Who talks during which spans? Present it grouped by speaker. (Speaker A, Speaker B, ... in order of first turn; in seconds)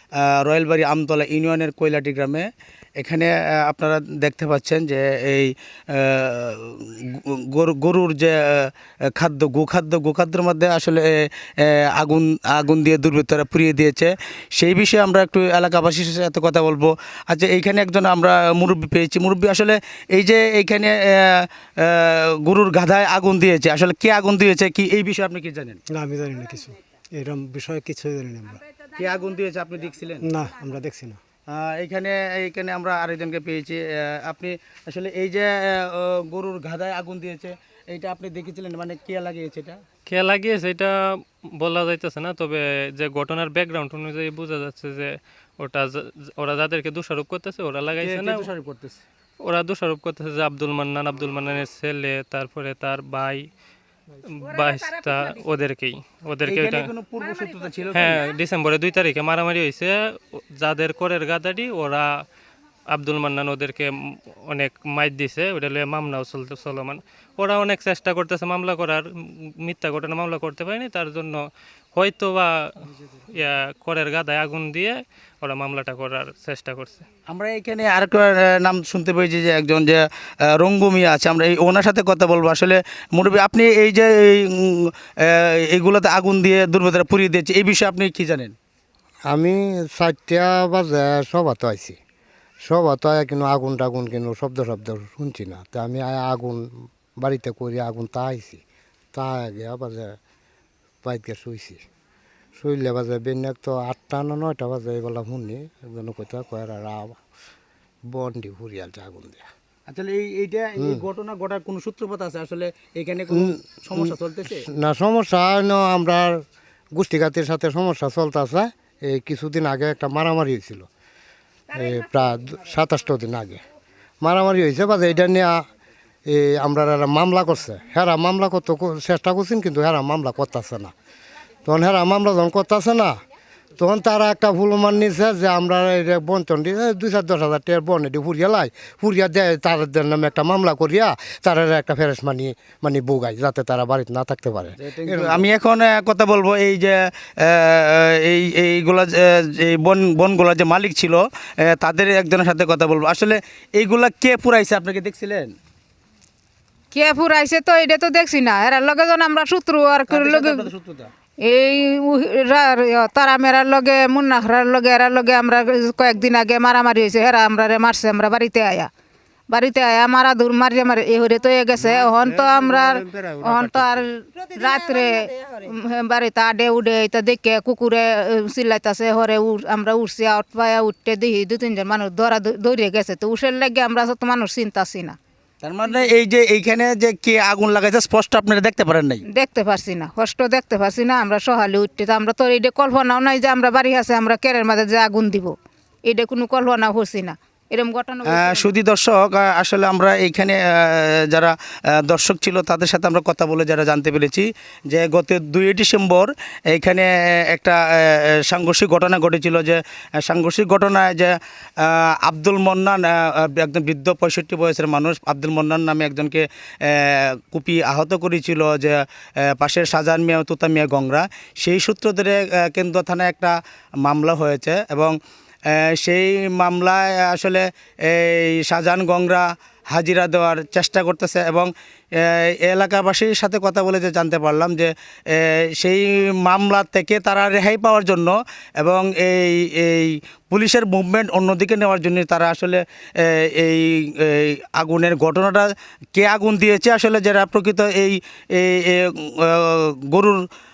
Speaker A: 0.2-25.8, 28.9-30.3, 31.5-39.8, 48.0-49.0, 56.5-58.2, 77.3-88.5, 109.9-114.7, 144.8-155.5, 160.1-161.1, 171.8-174.0, 185.6-189.2, 198.3-225.2, 225.7-250.4
Speaker B: 25.9-28.6, 30.2-31.2
Speaker C: 40.1-48.5, 49.4-53.5, 54.3-56.9, 57.9-62.2, 62.9-77.0
Speaker D: 89.3-92.0, 92.6-96.6, 97.2-98.6, 99.1-100.2, 101.0-101.8, 102.6-107.2, 108.1-109.4, 113.3-116.4, 117.0-120.9, 121.7-123.6, 124.2-125.7, 126.3-130.9, 131.6-133.2, 133.8-145.5
Speaker E: 156.9-160.7, 161.4-168.9, 169.5-185.2, 189.3-198.7